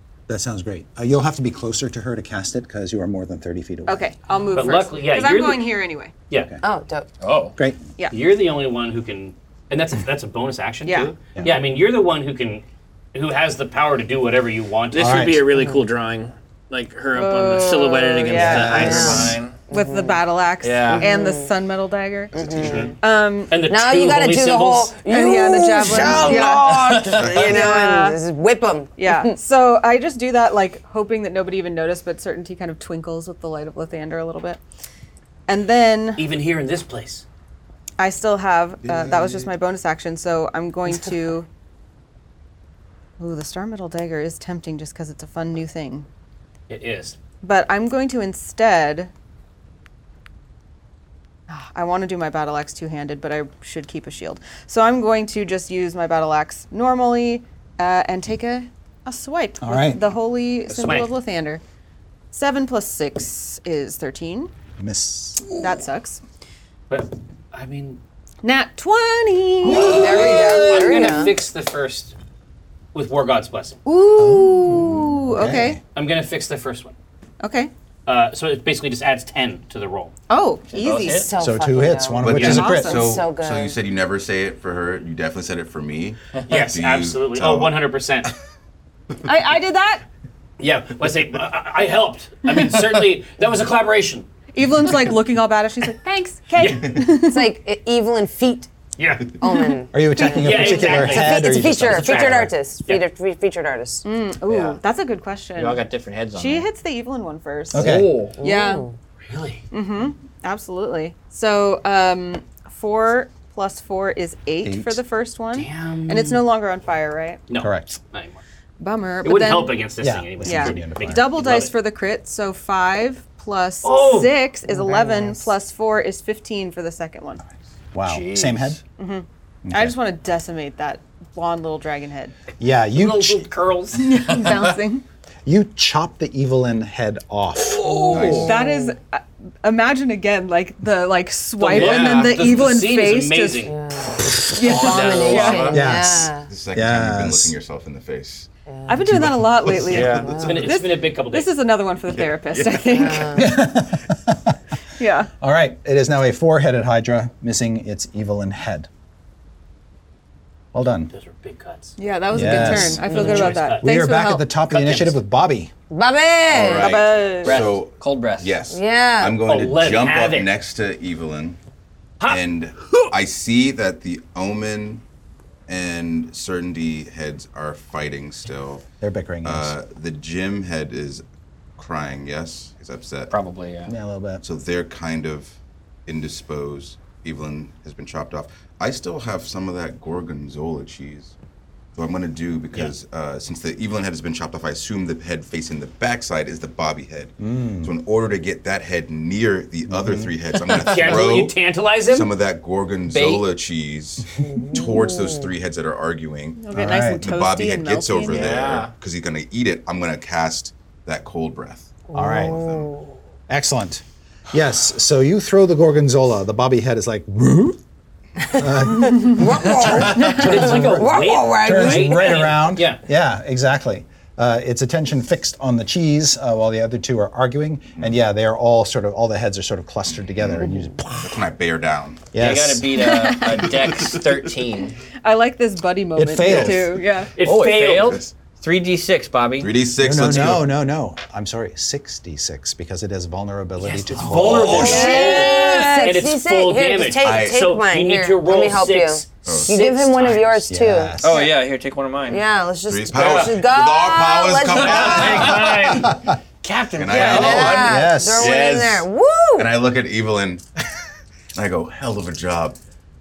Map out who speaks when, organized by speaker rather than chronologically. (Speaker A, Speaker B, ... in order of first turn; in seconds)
Speaker A: 0.3-4.1, 6.3-6.6, 15.0-15.5, 18.3-19.4, 59.6-60.0, 64.8-65.5, 74.2-75.8, 81.4-83.0, 99.9-102.5, 107.7-108.2, 114.6-115.0, 117.6-118.0, 120.0-121.3, 127.9-128.8, 129.7-130.0, 132.6-133.5, 135.4-138.5, 145.7-147.5, 149.1-149.4, 153.3-154.6, 155.4-158.9, 160.7-161.1, 162.3-163.0, 163.8-165.7, 179.0-179.8, 183.9-184.4, 197.4-197.9, 199.9-200.3, 206.7-207.3, 212.1-212.6, 213.5-217.8, 218.5-231.3, 232.3-232.8, 236.2-236.9, 240.0-245.1, 250.7-251.5, 255.9-256.4, 257.6-258.6
Speaker B: 3.9-6.1, 10.8-11.2, 17.1-23.6, 25.1-28.2, 29.0-34.6, 35.5-36.2, 38.0-41.5, 43.2-46.1, 47.4-49.1, 51.5-61.6, 62.3-64.5, 65.6-66.2, 68.4-70.7, 73.8-75.8, 77.4-77.7, 80.3-81.3, 82.4-83.1, 89.2-90.0, 94.5-97.5, 104.0-105.8, 106.3-108.9, 109.7-117.5, 118.8-119.8, 120.4-127.4, 129.0-132.3, 134.0-135.0, 138.4-143.7, 144.5-145.8, 148.9-153.5, 155.0-155.3, 162.0-164.5, 166.7-167.7, 206.6-208.6, 232.9-233.7, 235.2-237.3, 245.1-245.7
Speaker C: 4.5-5.7, 8.1-15.2, 22.6-22.9, 23.5-24.9, 36.2-37.2, 46.7-47.2, 60.7-61.1, 66.9-68.0, 69.8-72.2, 72.9-73.8, 75.9-76.9, 78.1-80.1, 82.3-82.6, 86.5-88.3, 90.6-94.3, 96.5-97.0, 99.0-99.4, 100.2-103.0, 109.3-109.6, 115.5-116.5, 117.5-118.4, 119.2-121.7, 123.8-124.4, 132.9-134.0, 141.6-143.8, 149.9-151.5, 161.1-161.9, 162.7-163.9, 164.6-165.2, 169.5-170.5, 200.7-202.3, 219.8-223.0, 237.4-238.2, 243.8-250.6, 254.8-256.1
Speaker D: 6.6-7.1, 18.7-20.2, 20.9-21.5, 22.3-22.9, 23.6-29.3, 69.7-71.3, 81.1-83.8, 97.0-98.7, 99.4-104.0, 108.4-108.9, 124.7-125.5, 138.3-138.9, 143.7-146.5, 148.7-149.1, 150.1-150.7, 152.9-153.5, 163.1-163.6, 165.9-167.0, 168.7-169.4, 204.5-205.4, 212.1-213.2, 218.4-222.5, 244.6-251.2, 252.3-255.6, 257.1-259.8
Speaker E: 7.2-7.6, 14.9-19.6, 20.6-21.1, 25.9-27.5, 69.7-71.1, 80.7-81.3, 86.3-86.7, 104.5-104.8, 105.6-106.7, 107.7-108.4, 128.1-128.8, 134.3-134.7, 137.6-138.5, 141.7-142.5, 144.6-145.9, 149.9-150.3, 167.4-168.5, 183.3-183.9, 200.7-201.2, 203.1-203.5, 208.3-208.9, 232.4-235.0, 237.4-239.7, 244.8-246.1, 251.2-252.4, 253.1-253.6, 254.8-255.9, 256.6-257.9
Speaker F: 22.4-22.9, 27.1-27.6, 38.8-39.5, 82.2-87.8, 146.5-148.5, 149.7-150.5, 152.1-152.8, 166.5-171.6, 172.2-175.0, 175.7-178.8, 179.4-181.2, 181.8-183.3, 184.4-191.3, 191.9-201.6, 202.1-211.9, 212.5-212.9, 230.2-232.3, 233.9-234.3, 238.0-238.3, 239.6-240.7, 244.3-245.1, 247.1-247.7, 249.4-249.8, 252.9-255.9, 256.9-260.6, 261.5-262.8